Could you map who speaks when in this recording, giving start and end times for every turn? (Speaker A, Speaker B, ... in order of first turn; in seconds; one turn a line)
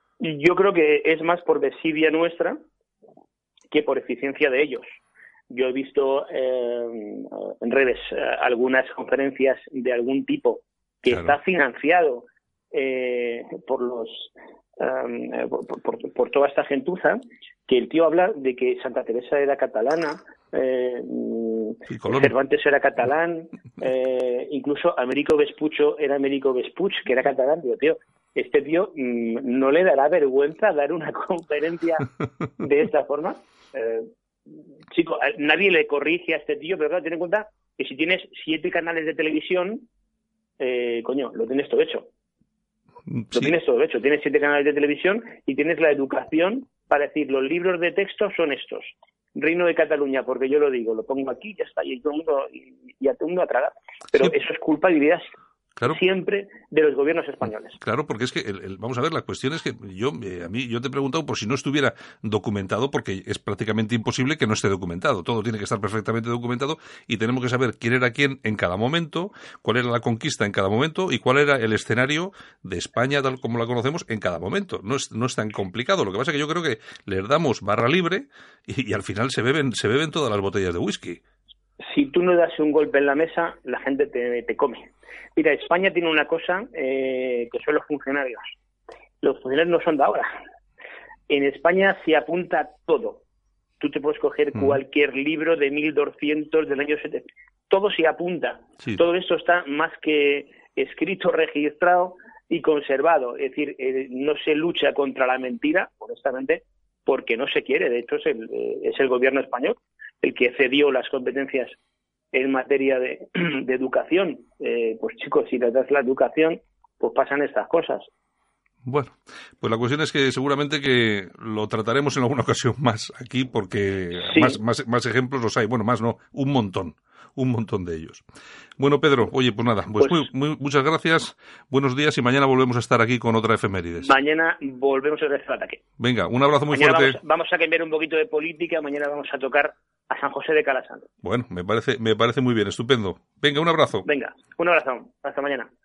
Speaker A: 0.2-2.6
Speaker A: 3.7-5.0
Speaker A: 5.5-32.1
Speaker B: 11.1-11.4
Speaker B: 21.9-22.3
Speaker A: 32.6-34.1
Speaker A: 34.9-39.9
Speaker A: 40.6-42.1
Speaker B: 43.1-43.5
Speaker A: 43.3-55.2
Speaker A: 55.9-57.8
Speaker B: 57.8-81.2
Speaker A: 81.9-88.5
Speaker A: 89.2-90.3
Speaker A: 91.3-93.2
Speaker A: 93.8-111.8
Speaker A: 112.3-118.1
Speaker B: 118.8-128.2
Speaker A: 124.2-124.6
Speaker B: 128.8-134.2
Speaker A: 130.0-130.3
Speaker A: 134.0-135.8
Speaker B: 136.0-137.2
Speaker A: 136.7-141.1
Speaker B: 141.2-144.1
Speaker A: 144.1-145.7